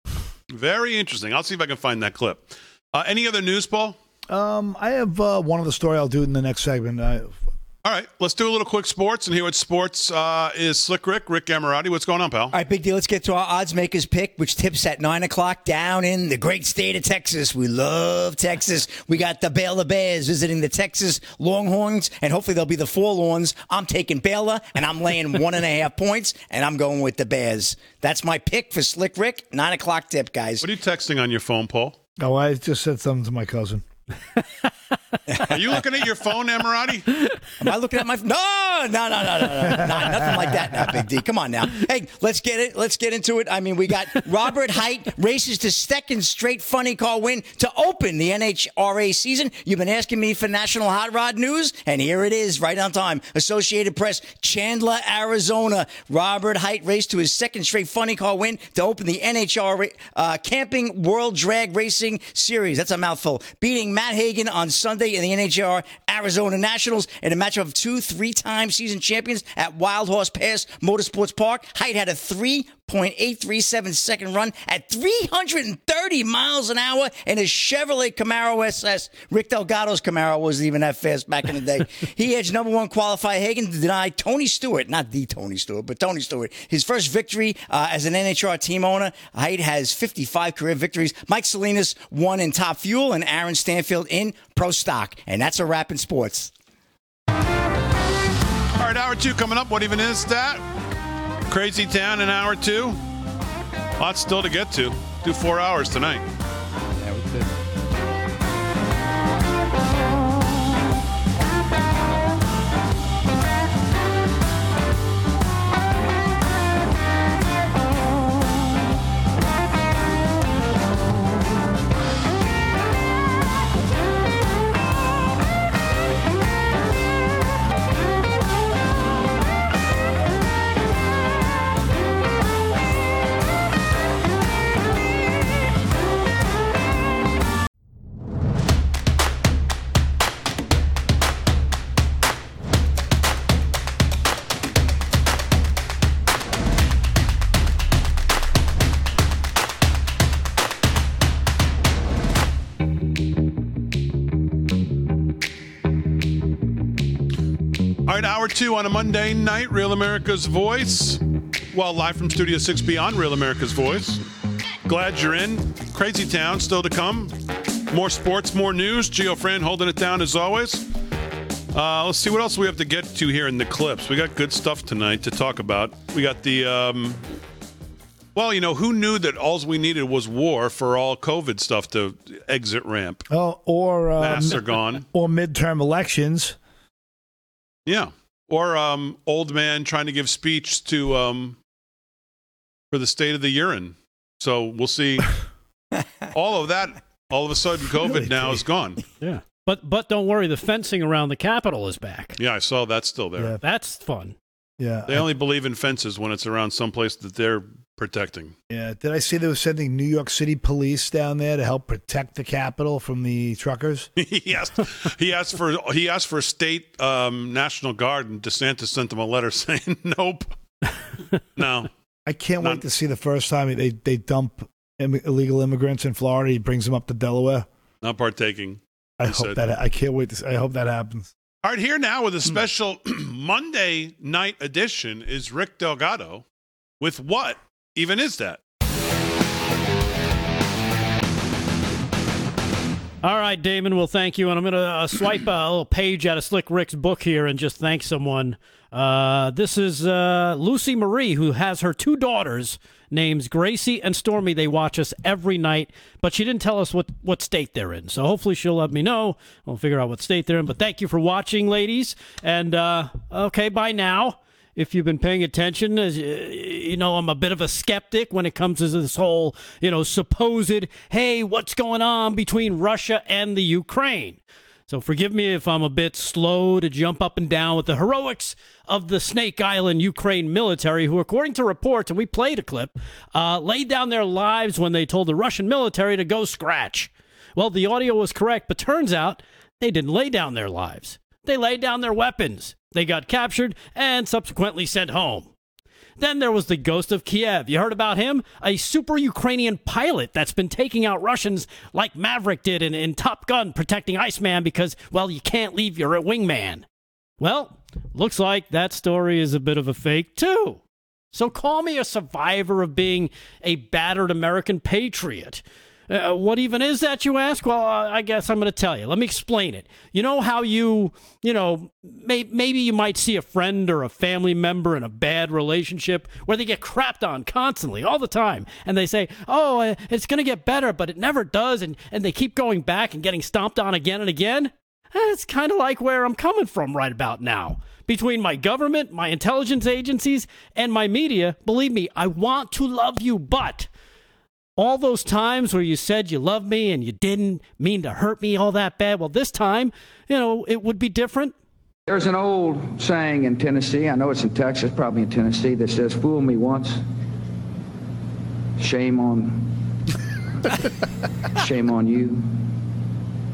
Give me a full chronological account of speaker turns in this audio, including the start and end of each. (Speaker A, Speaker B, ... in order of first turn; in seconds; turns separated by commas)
Speaker A: 0.5-4.0, Speaker B: 4.3-7.4, Speaker A: 7.8-12.5, Speaker C: 12.5-30.7, Speaker A: 30.6-32.0, Speaker B: 32.2-33.8, Speaker A: 35.5-37.1, Speaker C: 37.6-96.5, Speaker B: 39.6-40.1, Speaker A: 98.8-100.6, Speaker A: 101.5-103.0, Speaker A: 104.0-106.2, Speaker B: 107.0-107.5, Speaker A: 158.1-161.2, Speaker A: 161.7-164.2, Speaker A: 164.8-167.3, Speaker A: 167.9-170.8, Speaker A: 171.7-177.2, Speaker A: 178.3-183.2, Speaker B: 183.3-186.6, Speaker A: 184.2-185.1, Speaker A: 187.8-191.6, Speaker A: 192.9-195.3, Speaker A: 196.3-199.0, Speaker B: 198.0-198.6, Speaker D: 199.2-202.4, Speaker A: 202.4-203.5, Speaker D: 203.6-204.3, Speaker B: 204.8-205.3, Speaker A: 205.1-208.5, Speaker B: 208.7-214.1, Speaker A: 214.2-220.5, Speaker A: 221.6-221.9, Speaker B: 222.2-227.7, Speaker A: 228.0-229.6, Speaker B: 229.2-231.3, Speaker A: 231.6-236.4, Speaker A: 237.0-238.6, Speaker D: 243.2-295.5, Speaker D: 296.2-306.8, Speaker D: 307.4-310.8, Speaker D: 311.3-343.9, Speaker D: 344.8-351.5, Speaker E: 352.1-357.0, Speaker E: 358.8-359.7, Speaker E: 361.6-362.5